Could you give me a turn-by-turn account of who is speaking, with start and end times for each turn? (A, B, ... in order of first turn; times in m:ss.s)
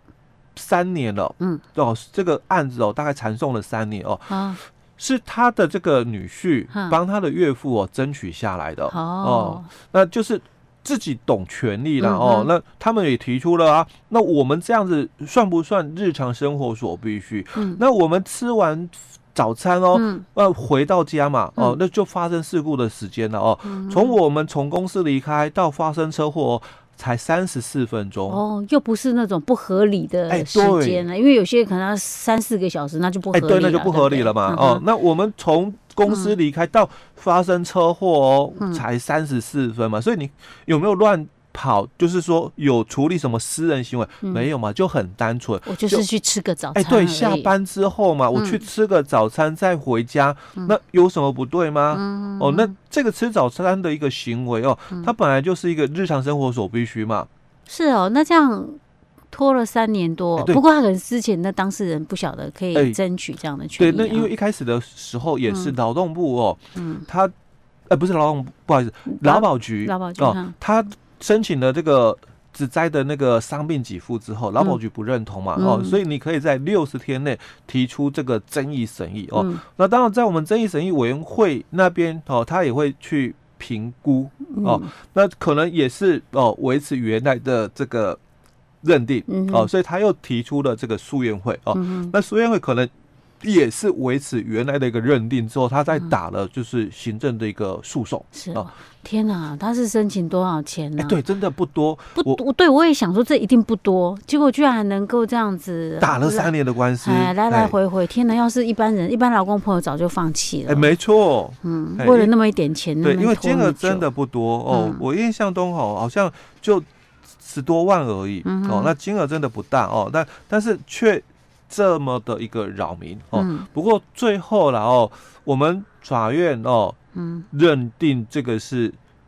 0:00.6-0:28.4 A
0:04.3-0:04.6 B
0:06.7-0:07.0 B
0:08.9-0:09.7 B
0:12.0-0:12.5 B
0:17.6-0:17.8 B
0:19.9-0:20.2 B
0:23.6-0:24.2 B
0:28.3-0:34.8 B
0:30.3-0:31.0 A
0:33.3-0:46.0 A
0:36.1-0:36.4 B
0:38.6-0:38.8 B
0:45.6-0:47.5 B
0:46.8-0:57.3 A
0:48.3-0:48.6 B
0:51.9-0:52.7 B
0:57.7-0:58.8 B
0:59.3-1:04.3 B
1:00.4-1:00.6 A
1:03.8-1:07.3 A
1:05.5-1:05.7 B
1:06.8-1:07.1 B
1:07.9-1:28.2 A
1:09.1-1:10.5 B
1:15.6-1:16.0 B
1:19.4-1:19.6 B
1:24.5-1:24.9 B
1:28.8-1:32.9 A
1:29.3-1:29.7 B
1:31.7-1:32.1 B
1:33.4-1:38.7 A
1:38.3-1:41.2 B
1:41.0-1:42.4 A
1:42.2-1:50.9 B
1:46.0-1:47.8 A
1:50.7-1:52.3 A
1:51.6-1:54.1 B
1:53.0-1:56.9 A
1:54.7-1:55.0 B
1:57.4-2:07.0 A
1:58.4-1:58.9 B
2:03.4-2:03.7 B
2:07.1-2:07.5 B
2:07.5-2:09.0 A